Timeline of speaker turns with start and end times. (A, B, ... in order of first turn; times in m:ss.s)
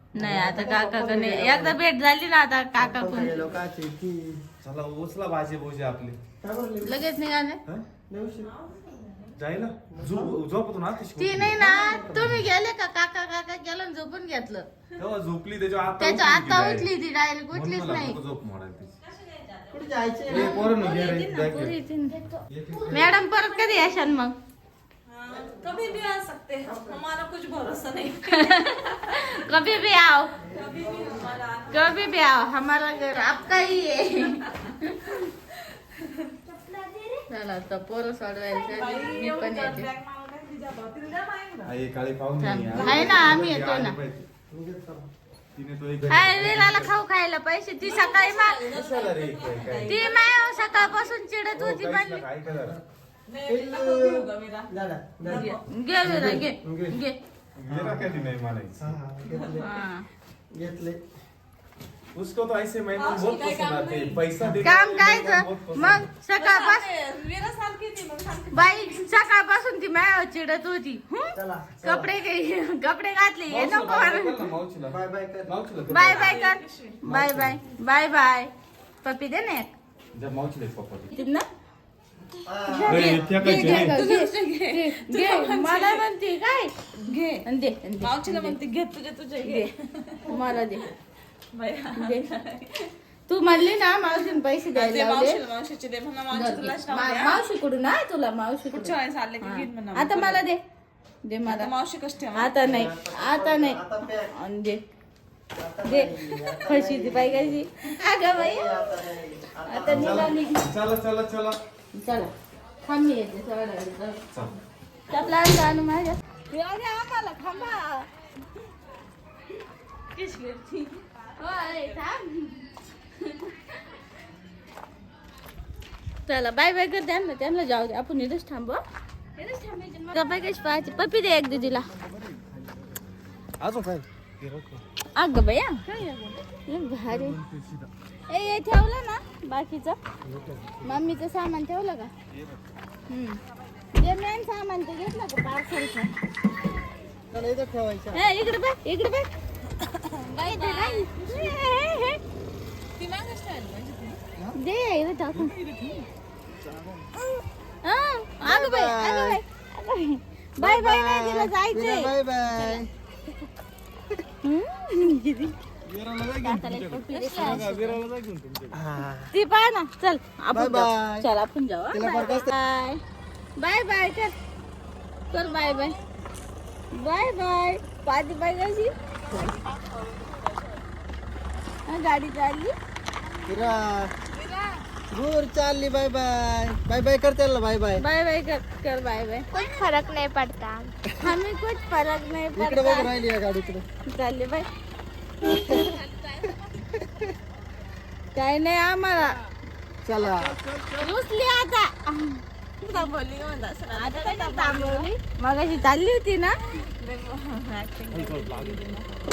0:00.1-0:03.4 A
0:00.2-0:01.8 B
0:02.8-0:04.4 B
0:04.6-0:06.2 C
0:06.4-0:07.0 B
0:06.8-0:07.6 A
0:08.1-0:08.5 B
0:08.4-0:09.3 D
0:09.4-0:11.6 C
0:09.9-0:10.3 B
0:11.2-0:14.6 A
0:11.5-0:12.4 B
0:15.0-0:16.9 C
0:16.0-0:18.2 A
0:17.5-0:18.9 C
0:19.0-0:20.0 D
0:19.7-0:20.5 B
0:20.3-0:21.7 C
0:20.3-0:22.2 A
0:22.5-0:23.2 C
0:22.9-0:24.3 A
0:25.1-0:29.4 D
0:25.5-0:25.8 B
0:26.6-0:27.0 B
0:28.3-0:30.4 A
0:30.4-0:31.4 B
0:30.5-0:32.2 D
0:31.7-0:35.2 A
0:34.6-0:36.3 D
0:36.5-0:37.0 E
0:37.3-0:39.9 A
0:38.6-0:41.7 D
0:41.6-0:44.2 C
0:42.4-0:44.0 A
0:42.8-0:43.3 B
0:44.5-0:45.1 B
0:45.6-0:46.9 C
0:46.1-0:48.6 A
0:47.8-0:51.1 D
0:48.7-0:49.9 C
0:49.8-0:52.2 A
0:51.5-0:52.8 C
0:52.4-0:52.8 B
0:53.3-0:54.7 D
0:53.4-0:55.5 B
0:55.2-0:55.6 D
0:55.4-0:57.2 A
0:56.0-0:56.9 B
0:57.6-0:59.0 C
0:57.7-0:59.7 B
0:59.3-0:59.7 D
0:59.6-1:00.0 A
1:00.5-1:01.0 B
1:02.1-1:06.0 C
1:02.9-1:04.2 D
1:04.6-1:06.9 A
1:06.4-1:08.9 D
1:08.5-1:14.5 A
1:11.3-1:12.1 B
1:13.5-1:16.3 C
1:14.9-1:15.5 B
1:15.9-1:18.5 A
1:16.0-1:17.0 D
1:17.0-1:17.6 B
1:19.0-1:19.7 A
1:20.1-1:21.1 C
1:21.1-1:21.4 A
1:22.4-1:23.4 B
1:22.7-1:26.7 A
1:22.9-1:24.0 C
1:23.4-1:26.0 D
1:26.9-1:27.4 D
1:27.4-1:28.6 A
1:28.0-1:30.9 D
1:30.3-1:30.9 A
1:31.5-1:32.9 D
1:32.0-1:32.2 A
1:33.3-1:35.4 A
1:34.7-1:37.4 D
1:36.3-1:40.6 A
1:38.7-1:40.4 D
1:41.2-1:41.7 A
1:41.4-1:42.5 D
1:42.3-1:43.8 A
1:42.6-1:44.3 B
1:44.3-1:44.8 A
1:45.5-1:47.6 B
1:45.8-1:48.9 A
1:48.2-1:50.3 B
1:49.7-1:50.6 A
1:49.9-1:51.6 C
1:52.0-1:52.3 A
1:52.8-1:54.2 A
1:55.1-1:58.0 A
2:00.2-2:02.7 A
2:03.2-2:03.5 A
2:06.2-2:08.8 A
2:09.4-2:10.1 D
2:10.1-2:11.9 A
2:12.1-2:12.7 C
2:13.6-2:14.8 C
2:15.2-2:15.8 A
2:15.8-2:16.5 D
2:16.7-2:17.4 A
2:17.1-2:17.9 C
2:18.3-2:20.0 A
2:20.2-2:21.0 B
2:20.8-2:22.1 A
2:22.3-2:22.6 C
2:23.1-2:23.4 A
2:23.9-2:26.1 A
2:27.3-2:28.2 B
2:28.1-2:29.3 A
2:29.8-2:31.6 D
2:30.4-2:32.2 A
2:33.0-2:34.2 D
2:34.6-2:35.5 A
2:35.3-2:36.1 C
2:37.8-2:42.8 A
2:38.4-2:39.4 B
2:40.6-2:42.9 B
2:44.4-2:45.5 A
2:45.8-2:48.8 C
2:46.4-2:47.9 A
2:48.7-2:49.3 B
2:49.3-2:53.0 A
2:50.5-2:51.3 B
2:51.9-2:52.5 B
2:53.6-2:54.3 A
2:55.3-2:56.0 A
2:56.9-2:58.9 A
2:59.7-3:00.5 D
3:01.9-3:02.7 A
3:03.4-3:04.1 B
3:04.4-3:04.7 D
3:05.1-3:08.0 B
3:08.0-3:09.5 A
3:09.5-3:10.9 E
3:11.2-3:13.1 A
3:12.5-3:13.8 B
3:14.0-3:14.7 A
3:15.4-3:15.9 B
3:15.6-3:16.2 A
3:17.0-3:17.3 B
3:18.3-3:19.4 A
3:20.0-3:20.6 B
3:20.3-3:21.1 C
3:21.0-3:22.4 A
3:22.8-3:25.1 D
3:23.9-3:26.5 A
3:26.7-3:29.1 D
3:28.1-3:29.1 C